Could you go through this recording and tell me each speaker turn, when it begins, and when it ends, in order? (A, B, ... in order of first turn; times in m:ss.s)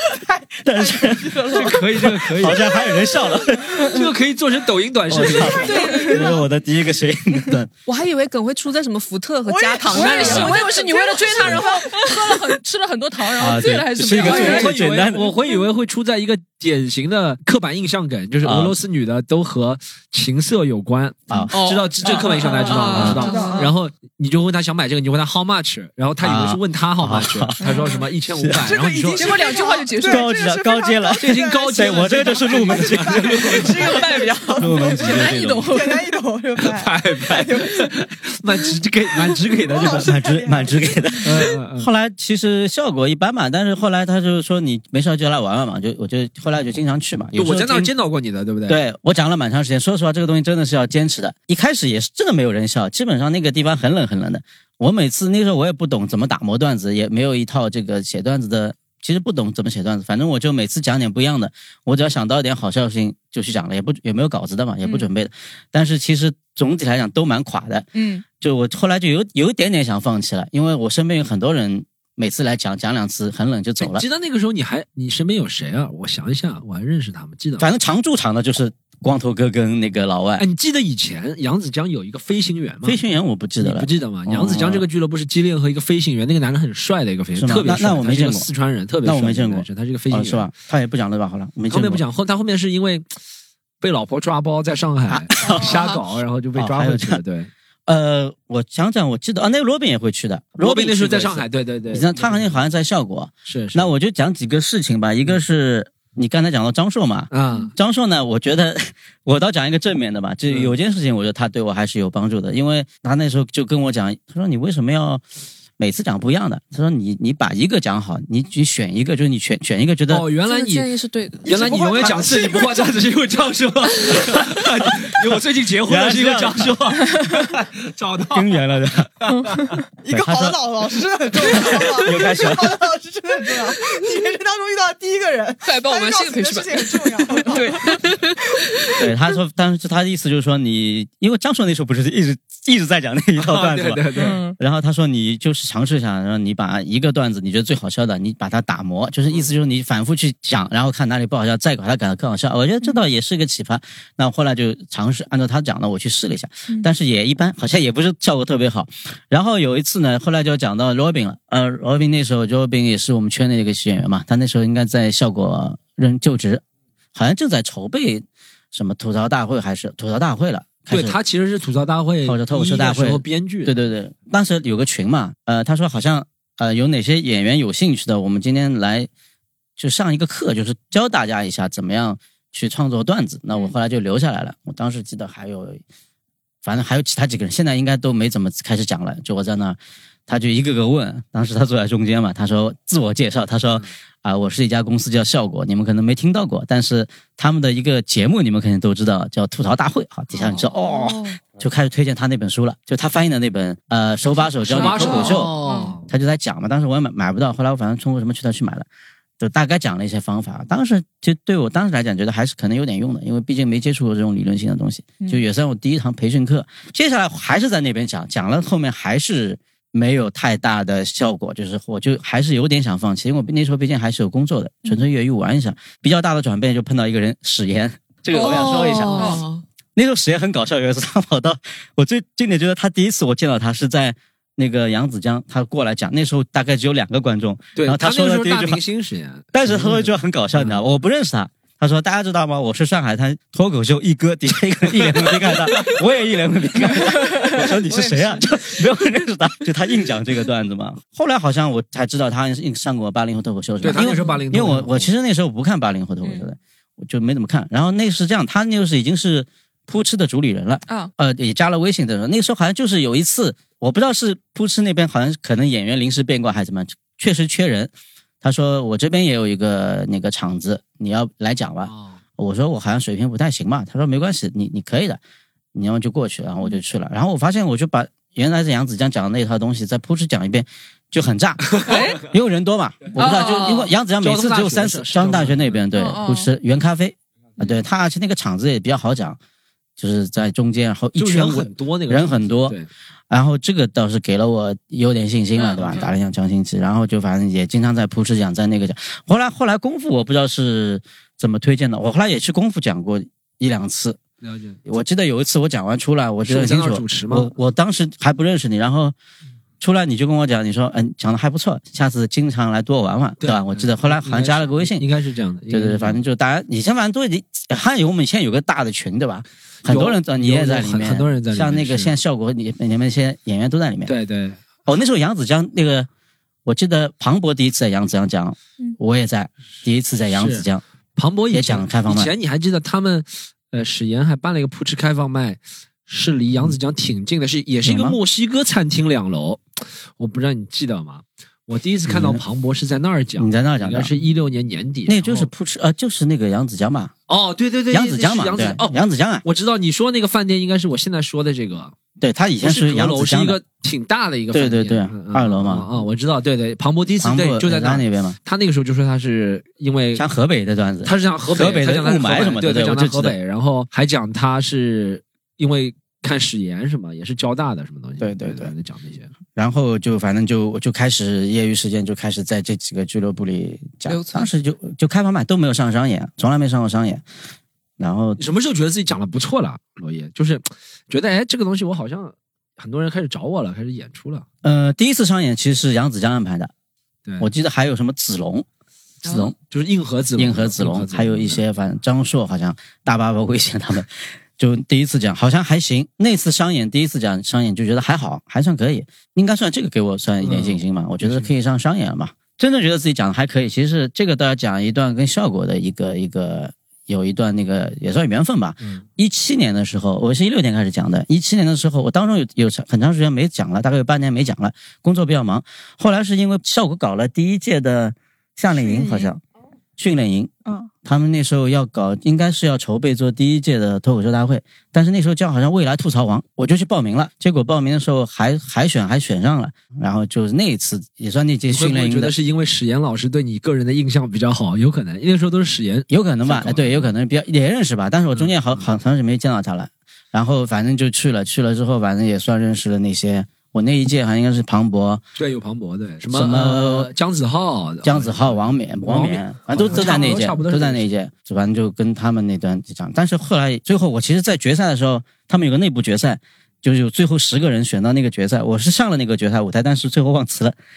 0:00.3-0:04.0 A
0:00.6-0:04.1 B
0:01.5-0:02.6 C
0:03.8-0:05.7 C
0:05.1-0:07.7 B
0:05.4-0:06.4 A
0:05.6-0:06.4 D
0:05.8-0:06.1 E
0:07.9-0:10.8 E
0:09.4-0:11.7 A
0:09.9-0:14.7 D
0:10.1-0:10.5 C
0:13.4-0:15.3 B
0:14.2-0:29.4 C
0:18.4-0:18.8 B
0:21.3-0:21.9 B
0:21.6-0:23.7 E
0:22.0-0:23.6 D
0:22.4-0:23.7 A
0:22.9-0:23.2 B
0:26.2-0:27.6 B
0:27.6-0:28.0 D
0:28.4-0:28.7 B
0:28.6-0:37.9 A
0:29.1-0:30.3 D
0:30.0-0:34.0 B
0:31.2-0:34.0 C
0:33.6-0:36.1 D
0:34.6-0:35.7 B
0:36.6-0:40.1 C
0:39.3-0:41.3 A
0:39.8-0:47.9 B
0:41.2-0:41.9 C
0:47.3-0:48.8 C
0:48.7-1:07.9 B
1:04.8-1:05.1 D
1:07.9-1:08.2 D
1:08.4-1:14.0 B
1:13.8-1:17.7 C
1:17.6-1:20.4 B
1:20.4-1:23.0 C
1:22.8-1:24.9 B
1:23.6-1:30.5 C
1:27.3-1:28.5 B
1:29.0-1:32.0 B
1:31.7-1:33.0 C
1:33.8-1:37.5 C
1:35.1-1:35.8 B
1:35.6-1:36.0 E
1:36.6-1:37.2 B
1:37.9-1:55.2 B
1:40.6-1:42.6 C
1:43.4-1:43.9 C
1:47.3-1:47.7 C
1:50.5-1:50.7 C
1:55.8-2:00.3 B
2:00.1-2:00.9 C
2:00.4-2:02.8 E
2:01.4-2:08.4 C
2:02.0-2:02.4 A
2:04.9-2:05.1 B
2:05.9-2:06.8 B
2:08.3-2:09.1 B
2:09.3-2:09.7 C
2:09.3-2:09.7 D
2:10.0-2:18.0 A
2:10.1-2:10.6 B
2:11.4-2:12.8 B
2:15.7-2:16.5 D
2:16.2-2:16.7 E
2:17.3-2:19.0 E
2:19.0-2:46.6 B
2:23.4-2:24.4 C
2:24.2-2:24.5 D
2:47.1-2:51.2 B
2:50.9-2:53.7 C
2:52.2-2:59.1 B
2:59.8-3:05.8 B
3:06.6-3:09.8 B
3:10.3-3:28.9 B
3:20.3-3:20.6 C
3:20.9-3:21.4 E
3:24.6-3:26.0 C
3:24.9-3:25.9 E
3:29.4-3:49.4 B
3:48.3-3:49.4 D
3:48.3-3:49.6 E
3:50.0-3:58.8 B
3:57.8-4:00.8 C
3:59.5-4:35.2 B
4:13.8-4:15.1 C
4:31.9-4:32.2 C
4:35.7-4:49.4 B
4:41.7-4:42.0 C
4:41.9-4:42.2 D
4:43.2-4:43.9 D
4:44.2-4:45.8 C
4:45.9-4:46.5 D
4:50.0-4:52.8 B
4:51.2-4:52.9 C
4:53.3-5:04.2 B
4:55.6-4:56.0 D
5:04.4-5:04.8 C
5:04.8-5:09.1 B
5:06.5-5:07.5 C
5:09.8-5:15.0 B
5:13.4-5:16.2 C
5:15.7-5:24.1 B
5:19.8-5:22.1 C
5:24.1-5:24.6 C
5:24.9-5:26.1 B
5:26.6-5:30.8 B
5:30.3-5:45.5 C
5:31.5-5:32.3 B
5:37.8-5:38.2 B
5:42.1-5:42.4 B
5:43.4-5:44.1 B
5:45.1-5:47.1 B
5:47.3-5:51.9 C
5:47.9-5:49.4 B
5:52.2-5:53.6 B
5:52.6-6:00.2 C
5:54.5-5:55.9 B
5:57.2-5:58.4 B
6:00.1-6:03.4 B
6:01.0-6:09.3 C
6:08.2-6:08.7 B
6:09.5-6:17.2 B
6:14.1-6:14.4 E
6:18.0-6:18.4 B
6:18.4-6:24.4 C
6:24.6-6:26.7 B
6:27.4-6:28.6 B
6:29.2-6:29.5 B
6:29.3-6:31.6 C
6:30.4-6:59.4 B
6:40.4-6:41.5 C
6:58.7-6:59.3 A
7:00.0-7:00.5 B
7:01.0-7:12.3 B
7:11.7-7:17.1 C
7:16.1-7:25.2 B
7:18.3-7:18.8 C
7:25.4-7:31.1 C
7:26.3-7:27.1 B
7:28.0-7:40.7 B